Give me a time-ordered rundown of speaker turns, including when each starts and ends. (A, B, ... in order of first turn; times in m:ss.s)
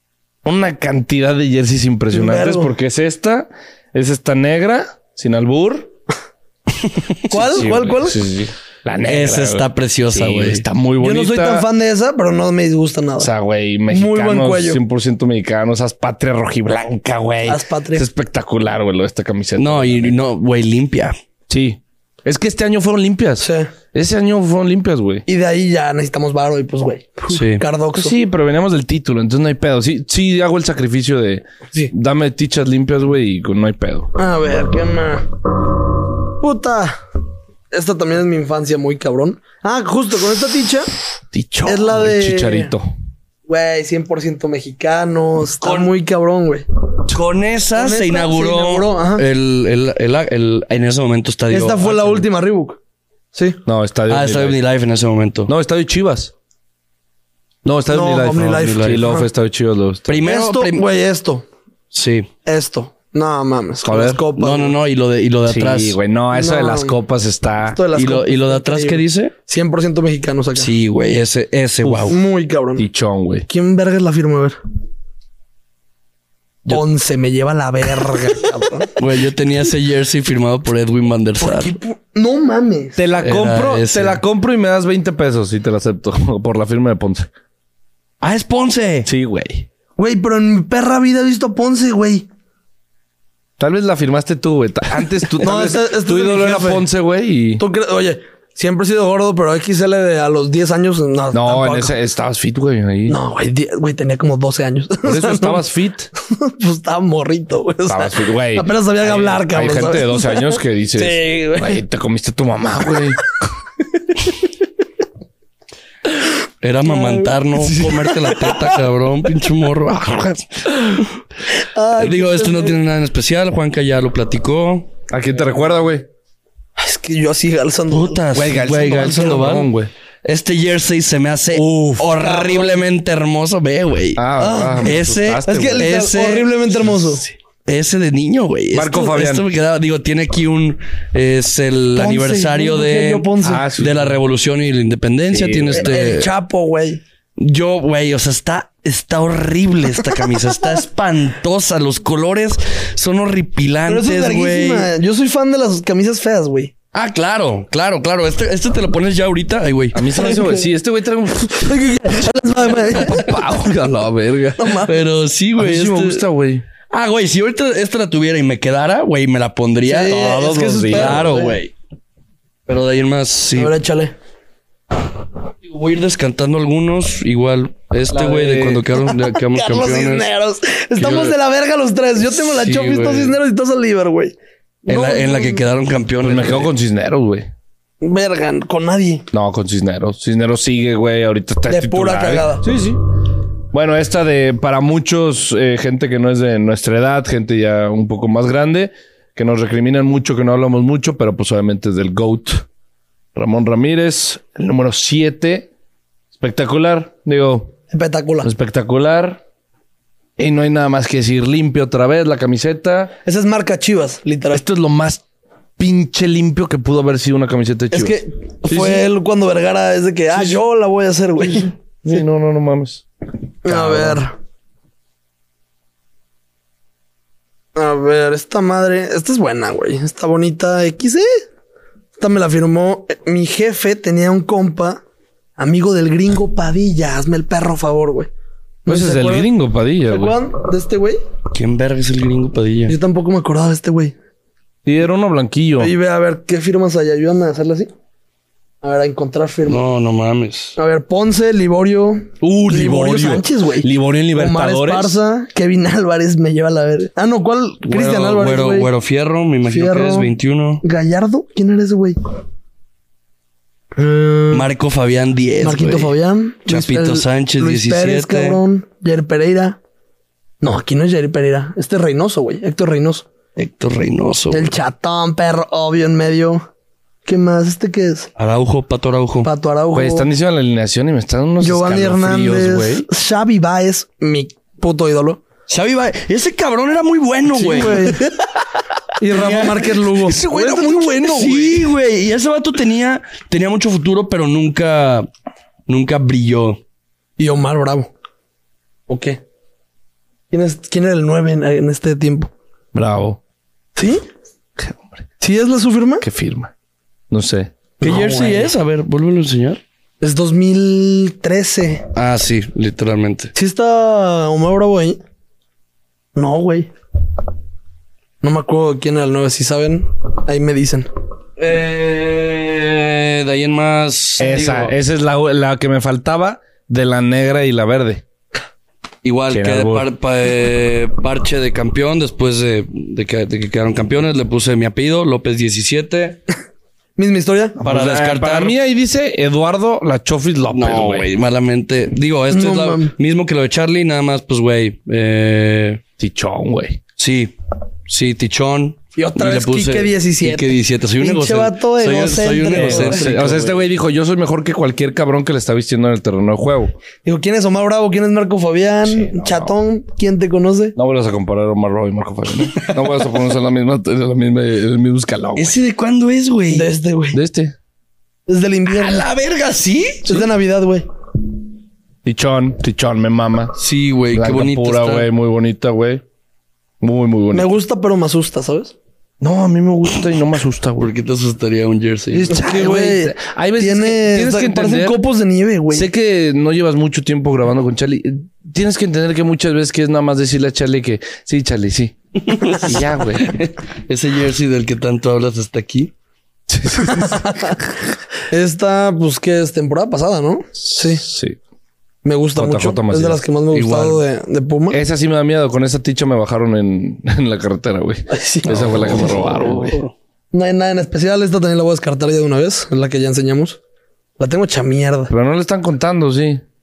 0:00.4-0:05.9 A
0:02.1-0:02.7 B
0:07.3-0:08.2 B
0:07.3-0:11.7 A
0:09.1-0:10.6 C
0:11.0-0:13.3 B
0:13.2-0:20.2 A
0:13.9-0:14.8 B
0:17.5-0:18.1 B
0:19.6-0:21.2 C
0:21.5-0:25.2 A
0:23.4-0:23.7 B
0:25.3-0:28.2 B
0:27.3-0:27.6 C
0:28.0-0:34.1 A
0:34.2-0:35.3 B
0:36.4-0:37.0 B
0:37.7-0:40.9 B
0:41.3-0:42.9 A
0:41.6-0:42.7 B
0:43.5-0:46.7 B
0:45.6-0:45.9 C
0:47.1-0:52.2 C
0:47.8-0:49.2 B
0:51.5-0:52.8 B
0:53.3-0:53.6 B
0:53.7-0:54.6 A
0:54.1-0:55.5 C
0:55.5-0:56.3 A
0:57.6-1:00.2 A
0:57.9-0:59.3 B
0:58.5-0:59.1 C
1:00.1-1:00.8 C
1:00.2-1:01.5 B
1:01.9-1:02.3 C
1:02.4-1:04.8 B
1:03.8-1:04.2 A
1:04.4-1:06.0 C
1:05.5-1:07.9 A
1:06.3-1:07.0 B
1:07.7-1:10.7 B
1:08.0-1:09.3 C
1:10.6-1:12.2 C
1:11.8-1:12.1 A
1:12.0-1:12.9 B
1:12.8-1:13.5 A
1:13.5-1:14.6 B
1:16.7-1:19.0 B
1:19.0-1:21.7 C
1:21.4-1:23.0 B
1:23.0-1:27.3 A
1:23.2-1:24.2 C
1:28.2-1:29.1 C
1:29.1-1:29.7 A
1:30.0-1:32.3 B
1:33.6-1:37.6 A
1:35.4-1:36.9 B
1:37.6-1:41.9 B
1:41.3-1:43.2 A
1:43.1-1:45.6 B
1:45.0-1:46.1 A
1:46.2-1:51.8 B
1:47.9-1:53.2 A
1:56.6-2:01.1 C
1:56.8-1:58.8 B
2:01.5-2:02.8 B
2:02.0-2:04.9 C
2:05.1-2:06.1 A
2:06.8-2:08.3 B
2:07.9-2:09.7 C
2:08.3-2:09.9 A
2:10.2-2:14.3 C
2:11.5-2:12.1 A
2:12.2-2:12.8 B
2:14.2-2:15.9 A
2:14.4-2:17.2 B
2:14.8-2:16.7 C
2:17.6-2:26.3 C
2:18.7-2:19.5 A
2:22.0-2:23.7 B
2:23.4-2:24.2 A
2:25.3-2:26.0 A
2:25.7-2:27.0 B
2:27.4-2:34.9 C
2:33.9-2:36.7 B
2:36.9-2:40.1 C
2:39.9-2:42.1 A
2:41.6-2:43.4 B
2:42.7-2:44.8 A
2:44.6-2:45.0 B
2:44.9-2:46.2 C
2:45.6-2:46.6 A
2:46.9-2:51.7 C
2:49.8-2:51.6 B
2:50.1-2:51.4 A
2:52.7-2:53.8 C
2:53.6-2:54.1 B
2:55.7-3:00.3 C
2:58.1-2:58.9 A
2:59.1-3:04.4 B
3:01.0-3:01.4 C
3:02.2-3:03.4 C
3:04.9-3:05.6 B
3:04.9-3:06.7 C
3:06.2-3:07.5 A
3:08.0-3:09.2 B
3:09.3-3:13.0 A
3:11.7-3:12.7 B
3:13.7-3:22.7 A
3:23.4-3:25.7 A
3:26.4-3:27.7 A
3:27.9-3:28.5 B
3:28.4-3:29.4 A
3:30.4-3:33.2 A
3:33.2-3:34.6 B
3:34.5-3:35.2 A
3:35.8-3:39.1 A
3:37.9-3:41.7 B
3:42.0-3:43.0 A
3:43.6-3:44.4 B
3:43.7-3:44.2 A
3:47.8-3:51.3 B
3:52.2-3:55.0 B
3:55.6-3:58.3 B
3:58.8-3:59.5 B
3:58.9-4:00.4 A
4:00.1-4:01.2 B
4:01.5-4:03.0 C
4:02.9-4:04.2 B
4:04.8-4:05.9 A
4:05.8-4:07.9 B
4:08.8-4:09.8 B
4:09.7-4:10.8 C
4:10.8-4:18.9 B
4:12.4-4:15.2 A
4:17.9-4:20.8 C
4:19.6-4:22.2 B
4:24.0-4:24.7 B
4:24.5-4:26.2 C
4:25.6-4:29.8 B
4:26.7-4:28.6 C
4:30.6-4:33.3 B
4:33.6-4:34.8 C
4:34.5-4:36.7 B
4:37.2-4:38.3 B
4:38.4-4:39.5 C
4:39.4-4:40.3 B
4:39.9-4:43.0 A
4:41.6-4:45.4 B
4:45.7-4:48.2 C
4:47.5-4:48.4 B
4:49.2-4:51.3 B
4:49.3-4:55.3 C
4:50.2-4:51.9 A
4:55.9-4:56.8 C
4:57.4-4:58.1 B
4:59.1-4:59.4 B
5:00.5-5:02.5 B
5:02.9-5:03.4 A
5:04.0-5:04.2 B
5:04.8-5:05.2 A
5:05.4-5:06.2 B
5:06.2-5:06.7 A
5:07.3-5:07.7 A
5:08.0-5:08.7 B
5:08.0-5:09.8 C
5:10.2-5:12.1 B
5:12.2-5:13.5 C
5:13.6-5:15.2 B
5:16.4-5:16.9 B
5:18.4-5:21.1 B
5:21.6-5:24.9 C
5:24.4-5:28.2 A
5:29.2-5:36.4 C
5:29.5-5:30.0 A
5:37.2-5:37.8 B
5:37.8-5:41.3 A
5:37.8-5:38.7 C
5:40.7-5:46.0 C
5:42.5-5:43.1 B
5:46.2-5:47.0 A
5:47.2-5:47.5 C
5:48.1-5:53.9 C
5:49.2-5:53.5 B
5:52.7-5:56.9 A
5:57.2-6:01.0 B
5:59.0-5:59.8 A
6:01.0-6:05.8 A
6:02.7-6:03.3 C
6:05.6-6:06.9 C
6:06.7-6:07.4 B
6:07.3-6:07.8 A
6:08.5-6:09.3 B
6:08.9-6:10.5 C
6:10.2-6:11.0 B
6:12.2-6:13.8 A
6:13.8-6:15.3 C
6:14.3-6:16.2 A
6:17.0-6:17.7 A
6:17.5-6:19.0 B
6:19.4-6:21.1 A
6:21.0-6:22.5 C
6:22.3-6:26.1 B
6:22.5-6:25.2 A
6:25.9-6:33.6 A
6:32.5-6:36.1 C
6:36.7-6:37.5 A
6:37.0-6:37.8 B
6:38.5-6:41.2 B
6:40.8-6:41.6 A
6:42.2-6:45.0 B
6:42.6-6:43.4 A
6:43.7-6:44.2 C
6:44.9-6:50.0 A
6:48.3-6:49.1 B
6:48.7-6:50.1 C
6:50.5-6:53.8 B
6:54.4-6:55.3 B
6:55.3-6:56.6 A